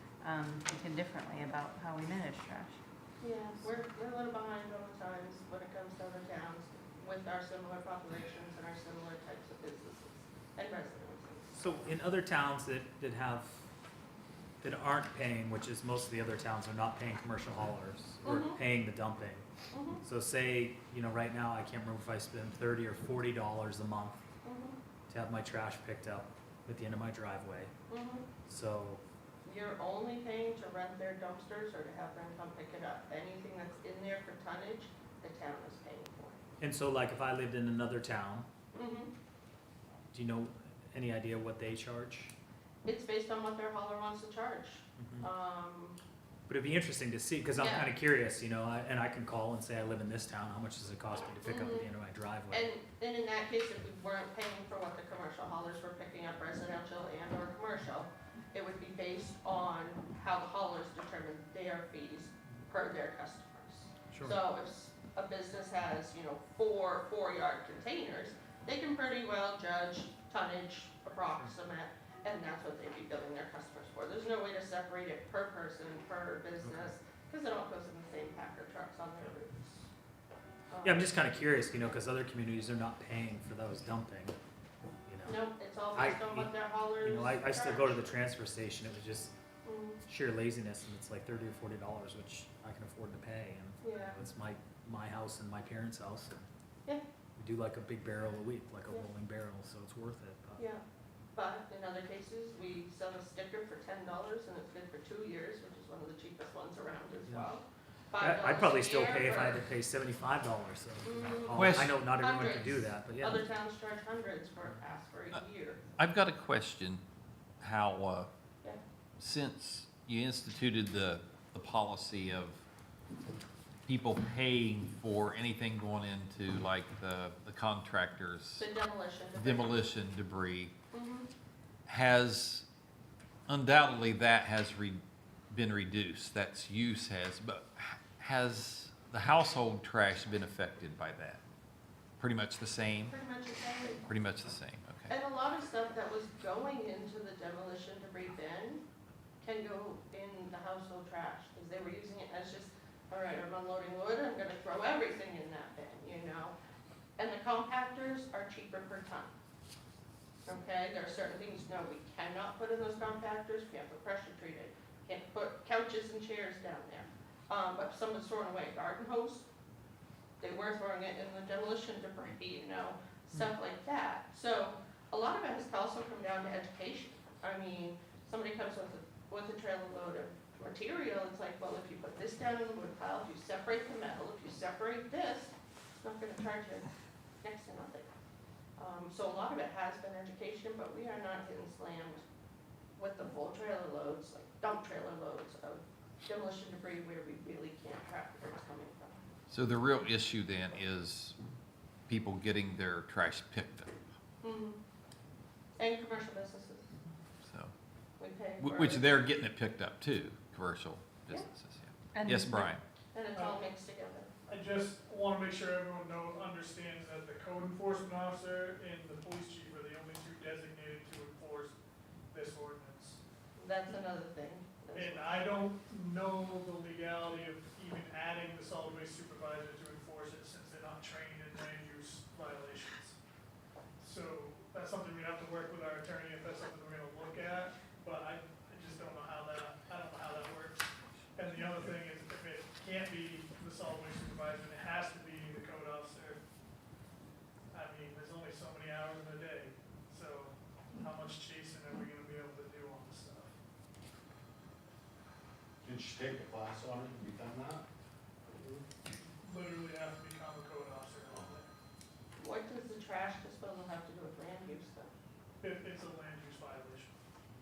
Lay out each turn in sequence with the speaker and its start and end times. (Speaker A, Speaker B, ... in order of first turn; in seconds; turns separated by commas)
Speaker A: 0.2-2.8, Speaker B: 3.2-11.8, Speaker C: 11.5-13.6, Speaker C: 14.6-19.4, Speaker B: 18.2-18.6, Speaker B: 19.7-20.0, Speaker C: 20.0-24.2, Speaker B: 24.4-24.8, Speaker C: 25.1-27.7, Speaker B: 27.9-28.3, Speaker C: 28.4-29.0, Speaker B: 29.4-36.4, Speaker C: 36.6-38.5, Speaker B: 38.7-39.1, Speaker C: 40.1-42.3, Speaker B: 42.8-46.0, Speaker C: 45.0-45.3, Speaker C: 46.5-52.7, Speaker B: 47.5-47.9, Speaker B: 51.4-51.9, Speaker B: 52.5-79.9, Speaker C: 64.1-64.4, Speaker C: 76.6-76.9, Speaker B: 80.7-81.1, Speaker C: 80.8-84.4, Speaker C: 85.0-89.3, Speaker B: 85.2-88.2, Speaker B: 89.6-90.0, Speaker C: 90.1-96.5, Speaker B: 93.8-94.2, Speaker C: 97.4-100.6, Speaker B: 101.3-109.6, Speaker C: 108.2-113.4, Speaker B: 111.0-115.8, Speaker D: 111.5-111.9, Speaker D: 116.0-117.0, Speaker D: 117.6-118.3, Speaker D: 119.2-122.6, Speaker D: 123.8-128.7, Speaker B: 128.6-129.9, Speaker D: 129.3-130.7, Speaker B: 130.9-131.3, Speaker D: 131.8-132.7, Speaker D: 133.5-141.4, Speaker D: 142.2-143.1, Speaker B: 143.1-144.0, Speaker D: 144.0-145.1, Speaker B: 145.1-148.8, Speaker B: 149.4-156.5, Speaker B: 157.2-159.3, Speaker B: 160.4-169.4, Speaker B: 170.4-186.9, Speaker B: 187.4-188.1, Speaker B: 188.8-192.2, Speaker B: 193.0-199.2, Speaker D: 199.5-201.4, Speaker D: 202.1-203.9, Speaker B: 204.4-204.8, Speaker B: 205.8-206.9, Speaker D: 207.4-207.7, Speaker B: 208.2-209.2, Speaker D: 208.6-212.8, Speaker A: 212.1-212.7, Speaker B: 213.1-214.3, Speaker E: 213.3-213.7, Speaker E: 214.5-221.7, Speaker E: 222.3-223.2, Speaker B: 223.6-225.5, Speaker E: 224.9-233.2, Speaker E: 234.0-246.4, Speaker E: 247.7-253.5, Speaker F: 255.8-257.8, Speaker F: 258.5-258.8, Speaker E: 259.4-261.7, Speaker F: 261.3-261.6, Speaker B: 262.4-265.1, Speaker E: 265.6-267.1